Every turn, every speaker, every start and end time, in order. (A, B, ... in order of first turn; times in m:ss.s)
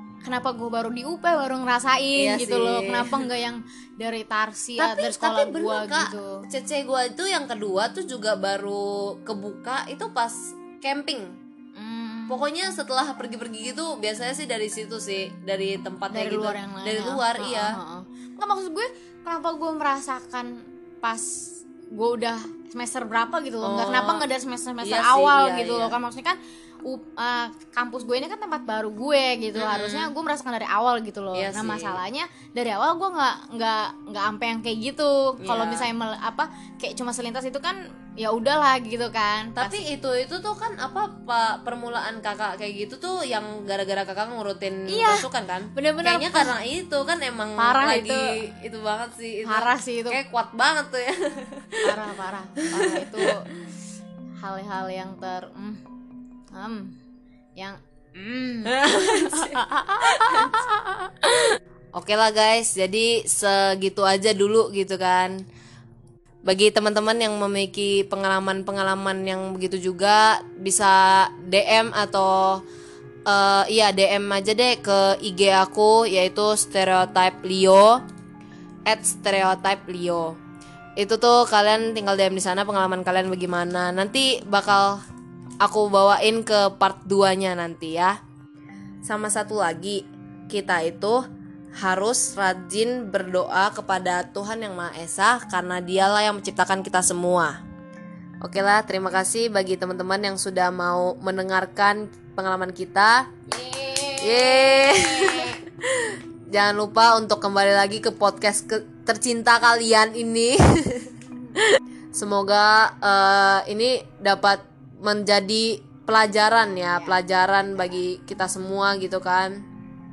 0:00.2-0:06.4 A
0:02.2-0:03.3 B
0:04.8-0:11.3 B
0:11.7-0:12.4 A
0:12.3-0:17.7 B
0:16.1-0:39.8 A
0:23.6-0:24.3 B
0:24.8-0:25.9 B
0:29.5-0:30.1 B
0:31.3-0:32.0 B
0:35.4-0:35.9 B
0:39.6-0:52.0 B
0:44.9-0:46.5 A
0:47.6-0:48.3 A
0:49.4-0:50.2 A
0:51.8-0:53.5 A
0:52.7-0:53.3 B
0:54.4-0:55.8 A
0:56.5-0:56.9 A
0:57.6-1:01.5 A
0:58.7-1:00.6 B
1:02.0-1:05.3 B
1:06.4-1:12.6 B
1:13.2-1:18.0 B
1:18.9-1:20.4 B
1:21.0-1:25.0 B
1:25.6-1:28.1 B
1:29.0-1:31.2 B
1:31.8-1:37.6 B
1:38.4-1:43.2 B
1:43.5-1:45.6 A
1:44.2-1:59.5 B
1:56.8-1:57.2 A